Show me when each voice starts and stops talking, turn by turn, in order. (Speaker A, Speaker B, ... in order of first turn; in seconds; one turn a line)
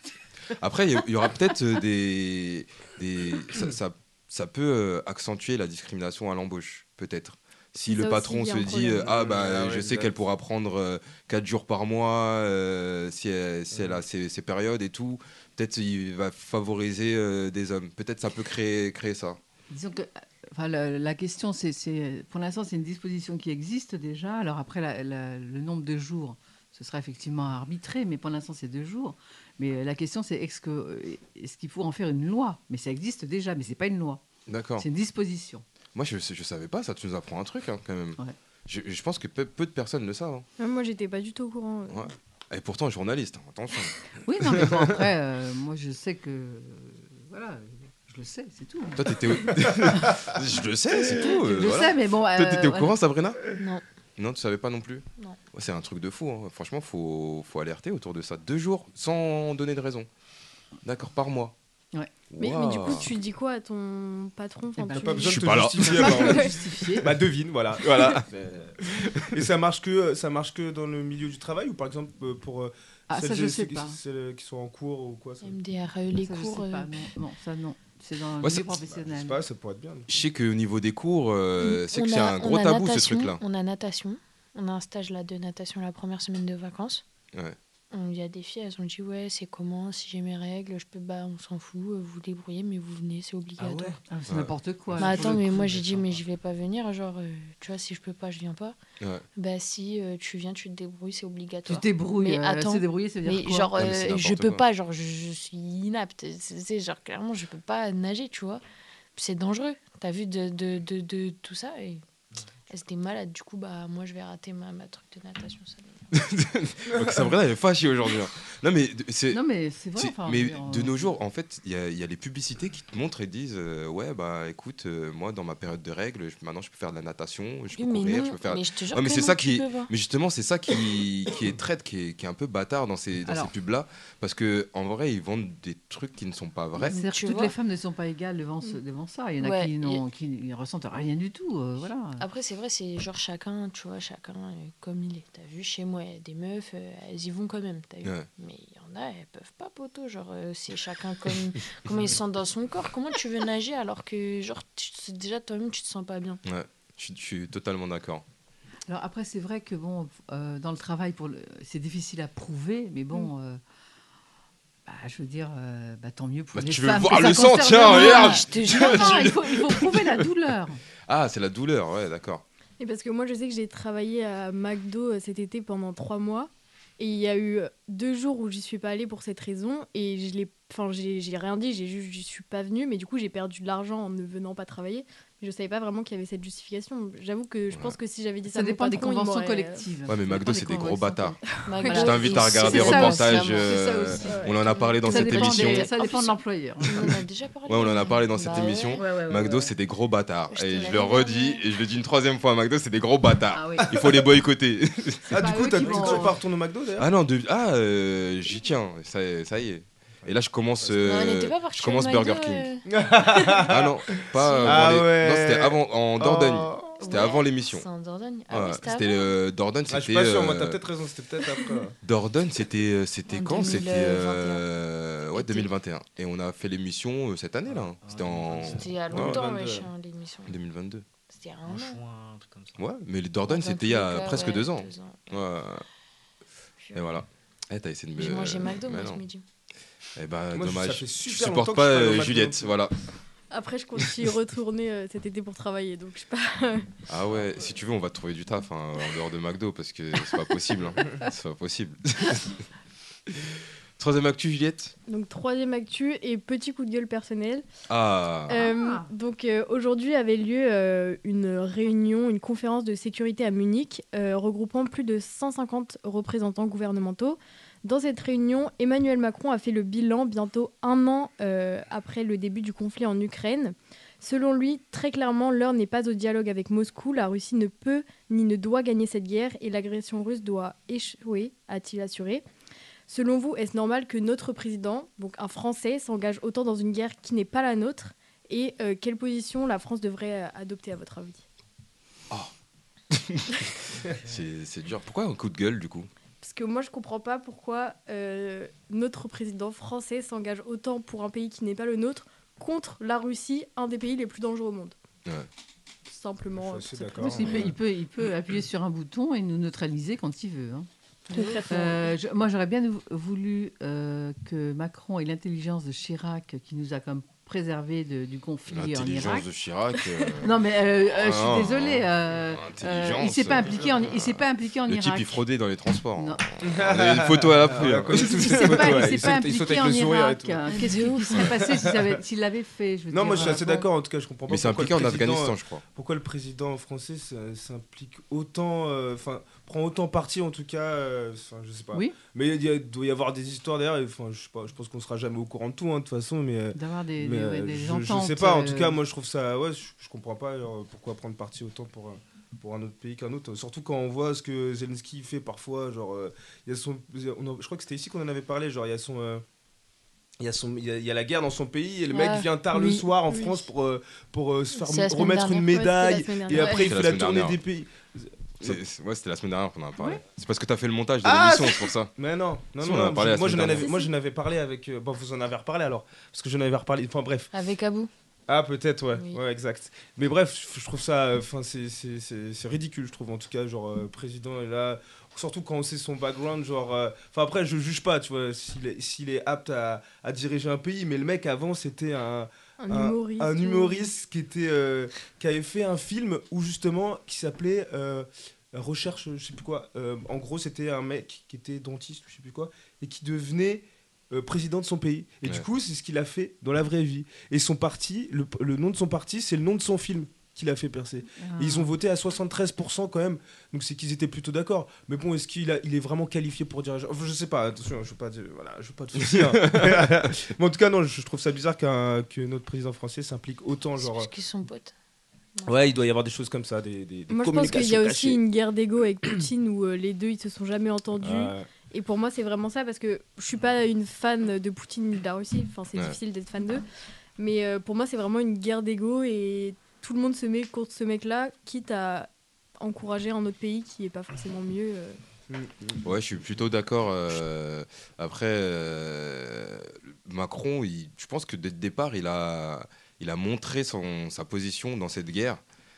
Speaker A: 0.6-19.4
Speaker B: 7.8-9.1
Speaker C: 9.0-10.1
Speaker C: 13.7-14.0
Speaker D: 19.7-34.2
Speaker A: 34.5-34.9
Speaker D: 34.8-35.6
Speaker A: 35.9-40.4
Speaker B: 40.6-42.1
Speaker A: 41.9-44.9
Speaker D: 44.2-50.1
Speaker A: 49.0-53.4
Speaker D: 51.3-52.9
Speaker E: 53.6-53.8
Speaker A: 54.2-60.1
Speaker A: 60.8-61.5
Speaker A: 62.3-63.1
Speaker B: 62.4-65.4
Speaker D: 64.8-67.1
Speaker C: 64.9-75.6
Speaker A: 65.2-66.4
Speaker B: 66.1-66.6
Speaker A: 67.8-68.2
Speaker A: 68.8-69.5
Speaker D: 73.1-74.0
Speaker E: 75.4-76.9
Speaker D: 76.1-79.4
Speaker A: 78.4-78.7
Speaker C: 78.9-80.1
Speaker A: 80.1-83.4
Speaker E: 81.6-87.0
Speaker E: 87.9-94.0
Speaker D: 94.1-95.8
Speaker A: 94.3-94.5
Speaker F: 94.9-96.0
Speaker E: 95.0-98.8
Speaker A: 99.0-99.2
Speaker E: 99.3-108.6
Speaker D: 101.7-103.7
Speaker A: 103.8-104.6
Speaker E: 109.1-112.0
Speaker E: 112.7-116.0
Speaker A: 116.1-119.4
Speaker C: 116.9-117.2
Speaker D: 119.3-121.1
Speaker A: 120.0-137.0
Speaker E: 127.7-129.9
Speaker D: 133.2-133.5
Speaker E: 136.8-137.5
Speaker D: 136.9-142.2
Speaker E: 139.4-140.0
Speaker E: 142.2-156.4
Speaker A: 156.4-158.2
Speaker D: 158.9-163.6
Speaker D: 164.8-170.8
Speaker A: 166.5-170.3
Speaker E: 167.7-169.3
Speaker A: 171.1-172.4
Speaker B: 172.8-189.8
Speaker D: 188.5-197.2
Speaker A: 190.1-191.4
Speaker B: 191.6-192.0
Speaker E: 191.7-199.1
Speaker A: 191.9-195.9
Speaker B: 194.2-194.6
Speaker A: 197.7-205.6
Speaker D: 198.9-199.7
Speaker E: 200.5-201.6
Speaker D: 203.5-203.9
Speaker C: 203.9-204.2
Speaker C: 205.3-207.1
Speaker D: 205.3-206.3
Speaker A: 207.0-212.7
Speaker E: 211.0-212.8
Speaker C: 212.9-217.3
Speaker A: 213.7-217.9
Speaker E: 214.3-214.9
Speaker E: 216.9-219.3
Speaker A: 218.5-220.8
Speaker C: 219.9-221.9
Speaker A: 222.0-229.4
Speaker E: 223.3-224.7
Speaker E: 225.3-225.7
Speaker F: 227.7-229.0
Speaker E: 228.6-230.6
Speaker C: 229.1-229.9
Speaker A: 230.4-231.1
Speaker E: 231.3-232.0
Speaker F: 231.6-232.8
Speaker A: 232.8-235.8
Speaker E: 233.4-235.3
Speaker E: 236.8-237.1
Speaker A: 236.9-239.2
Speaker E: 238.2-239.4
Speaker A: 240.2-242.9
Speaker C: 240.5-242.7
Speaker B: 243.5-246.9
Speaker A: 247.1-252.5
Speaker A: 253.3-254.9
Speaker B: 255.1-257.6
Speaker A: 257.9-258.6
Speaker B: 258.5-282.4
Speaker D: 258.5-259.1
Speaker B: 283.1-291.4
Speaker A: 293.1-296.1
Speaker B: 296.4-304.9
Speaker B: 306.1-307.7
Speaker C: 306.6-307.7
Speaker D: 307.2-310.9
Speaker B: 311.3-312.1
Speaker E: 311.3-311.7
Speaker D: 311.6-319.5
Speaker A: 318.7-329.3
Speaker D: 320.4-325.4
Speaker D: 326.1-326.4
Speaker C: 326.6-332.1
Speaker D: 328.1-333.9
Speaker E: 330.7-331.4
Speaker C: 333.1-359.4
Speaker A: 334.5-335.8
Speaker D: 346.7-349.0
Speaker C: 360.4-368.8
Speaker E: 362.1-363.0
Speaker B: 362.7-363.5
Speaker E: 364.8-365.7
Speaker B: 365.7-367.0
Speaker A: 366.6-367.6
Speaker A: 368.6-372.1
Speaker C: 371.2-377.5
Speaker A: 372.8-374.0
Speaker B: 373.8-374.1
Speaker E: 377.5-378.1
Speaker C: 378.5-424.3
Speaker E: 379.1-379.4
Speaker B: 392.8-394.1
Speaker D: 411.4-411.9
Speaker A: 419.1-420.3
Speaker E: 424.0-424.9
Speaker C: 425.6-428.4
Speaker B: 427.3-436.8
Speaker C: 431.2-431.7
Speaker B: 437.4-442.3
Speaker B: 442.8-445.2
Speaker C: 445.5-446.0
Speaker A: 446.0-455.6